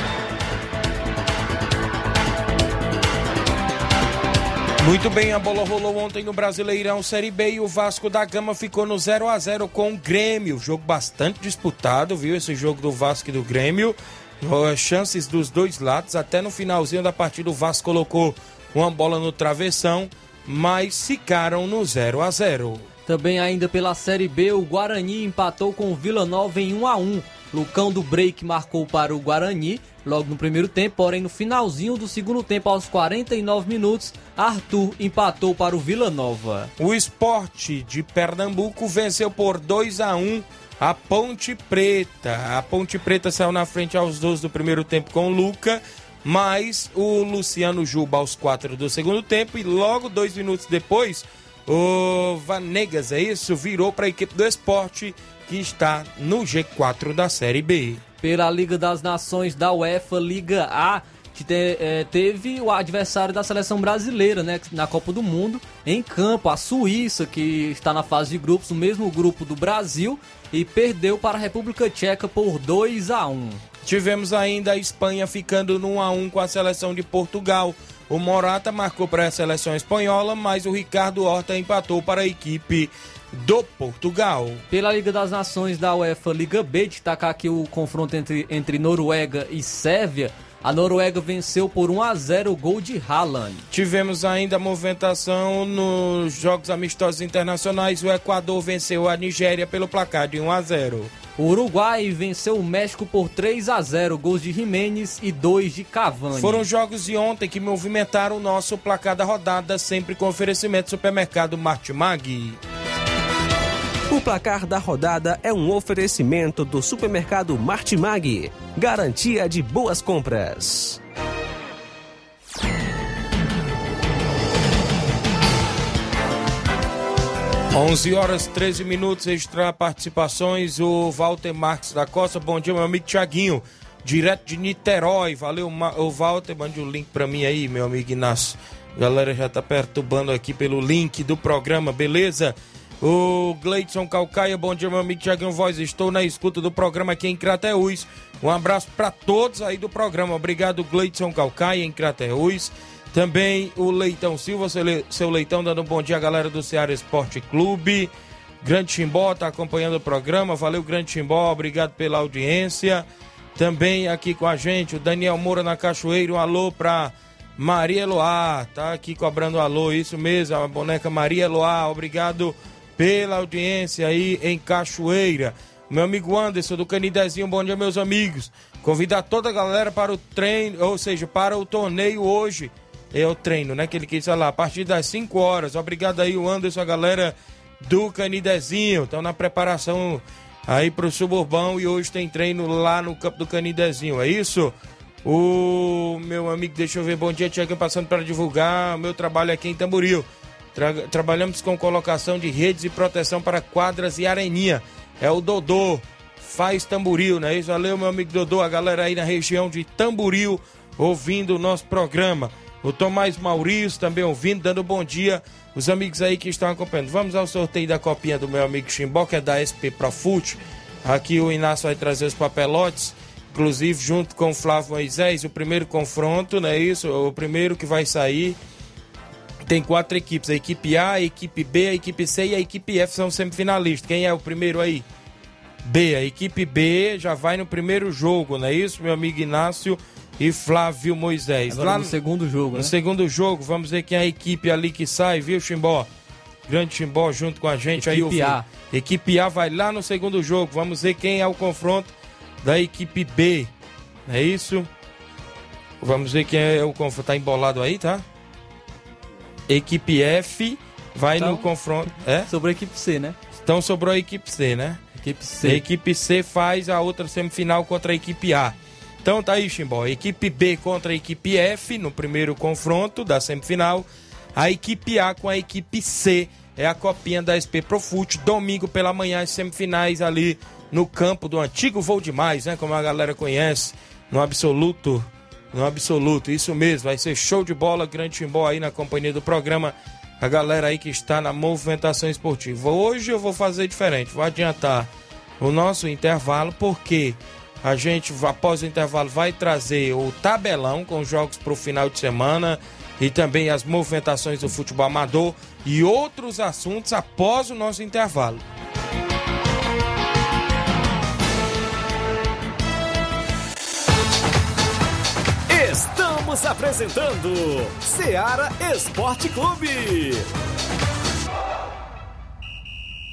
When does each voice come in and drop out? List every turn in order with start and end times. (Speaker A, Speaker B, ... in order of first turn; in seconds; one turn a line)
Speaker A: 4.8-22.9
Speaker B: 23.1-36.7
Speaker A: 36.8-58.0
Speaker B: 58.2-73.6
Speaker A: 73.8-84.6
Speaker B: 84.7-93.6
Speaker A: 93.7-101.1
Speaker B: 101.4-106.7
Speaker A: 106.3-112.6
Speaker C: 114.1-121.0
Speaker A: 127.7-158.1
Speaker A: 158.6-228.6
Speaker A: 229.6-235.1
Speaker A: 235.8-242.2
Speaker B: 241.7-242.9
Speaker A: 242.7-246.1
Speaker A: 246.7-253.7
Speaker B: 247.9-248.7
Speaker A: 254.3-254.9
Speaker A: 256.0-258.2
Speaker A: 259.7-262.5
Speaker B: 261.4-261.7
Speaker B: 262.5-263.4
Speaker A: 263.5-265.0
Speaker B: 265.2-265.8
Speaker A: 265.6-308.6
Speaker D: 315.7-320.4